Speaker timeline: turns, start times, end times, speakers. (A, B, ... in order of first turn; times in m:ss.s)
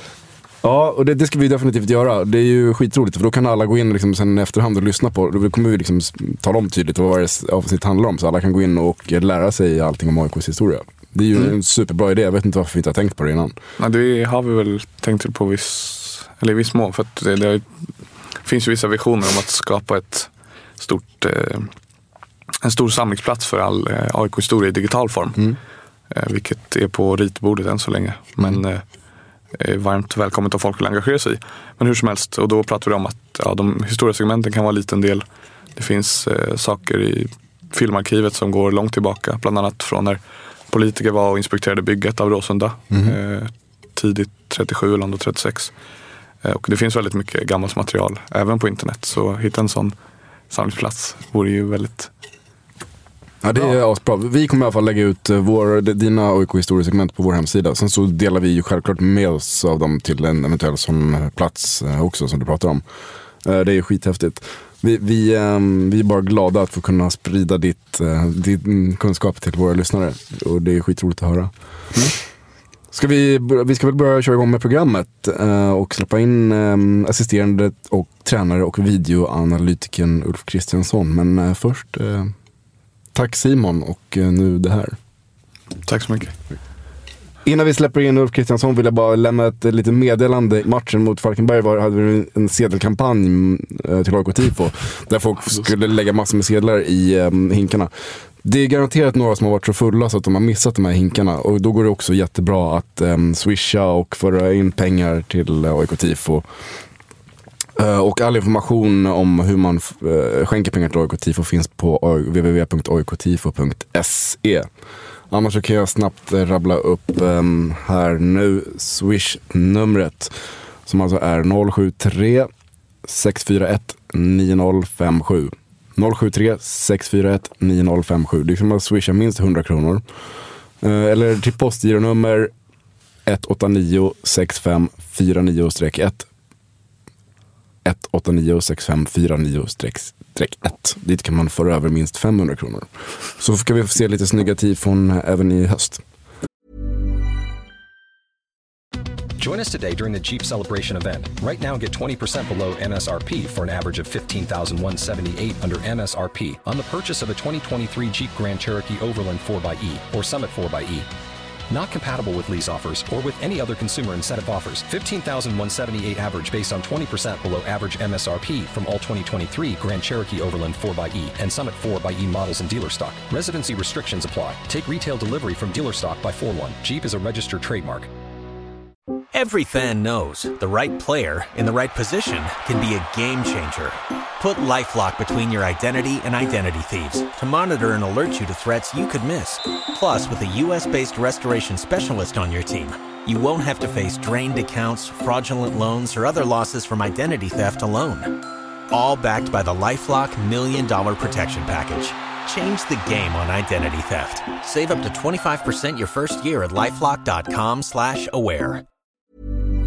0:00.6-0:13.5 A
0:13.8-0:17.6 B
0:18.4-0:21.7 B
0:22.6-0:25.4 B
0:26.1-0:28.8 B
0:29.5-0:45.7 B
0:42.9-0:43.2 A
0:46.4-0:49.9 B
0:50.5-0:52.1 B
0:53.4-1:02.8 A
1:03.4-1:12.0 A
1:12.9-1:22.3 A
1:23.1-1:24.9 A
1:25.8-1:26.3 B
1:27.4-1:37.9 A
1:38.4-1:46.4 A
1:47.8-1:54.7 A
1:55.3-2:00.3 A
2:00.8-2:02.5 A
2:03.0-2:10.0 A
2:10.8-2:12.5 A
2:13.2-2:16.3 A
2:17.8-2:22.9 A
2:23.4-2:26.0 A
2:29.4-2:41.1 C
2:41.7-2:58.1 C
2:59.3-3:28.8 D